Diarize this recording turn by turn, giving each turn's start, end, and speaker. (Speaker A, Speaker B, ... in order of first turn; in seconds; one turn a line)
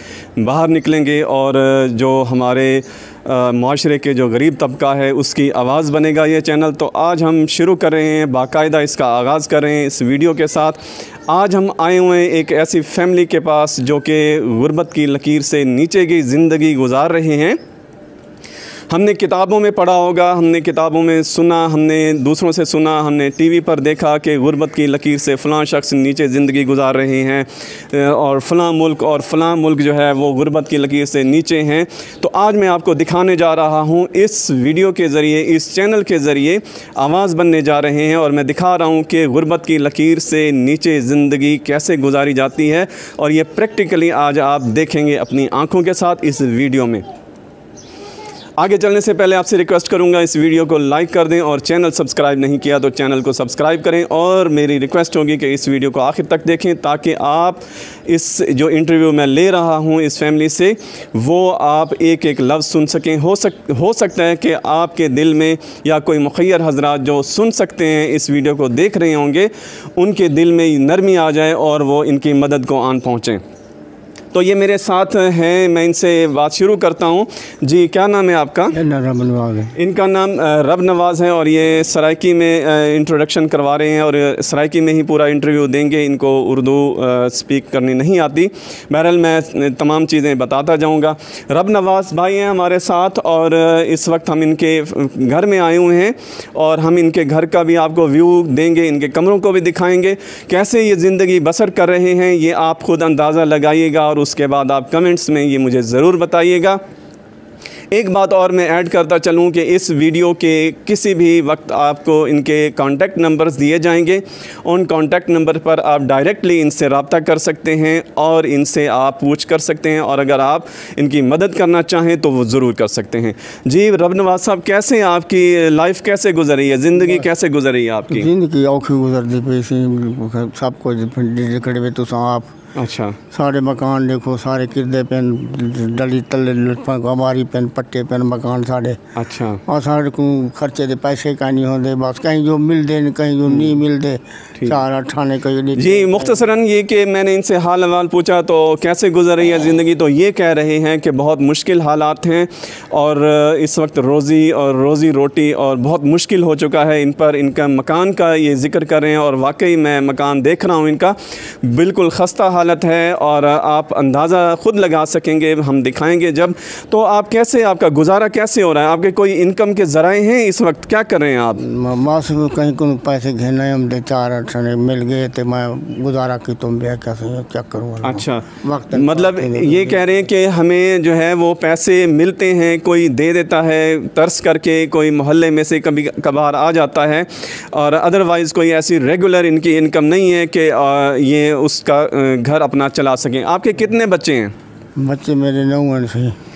Speaker A: 0.4-17.6
Speaker A: 18.9-47.0
Speaker A: 48.6-73.4
Speaker A: 74.3-78.8
Speaker B: 78.7-79.7
Speaker A: 79.8-106.8
Speaker A: 107.9-128.3
Speaker B: 127.0-127.2
Speaker B: 128.1-132.5
Speaker A: 132.8-133.2
Speaker B: 133.3-139.0
Speaker A: 139.2-139.6
Speaker B: 139.7-146.4
Speaker A: 143.5-143.8
Speaker A: 145.8-171.6
Speaker B: 171.6-180.0
Speaker A: 178.0-194.5
Speaker B: 195.0-196.3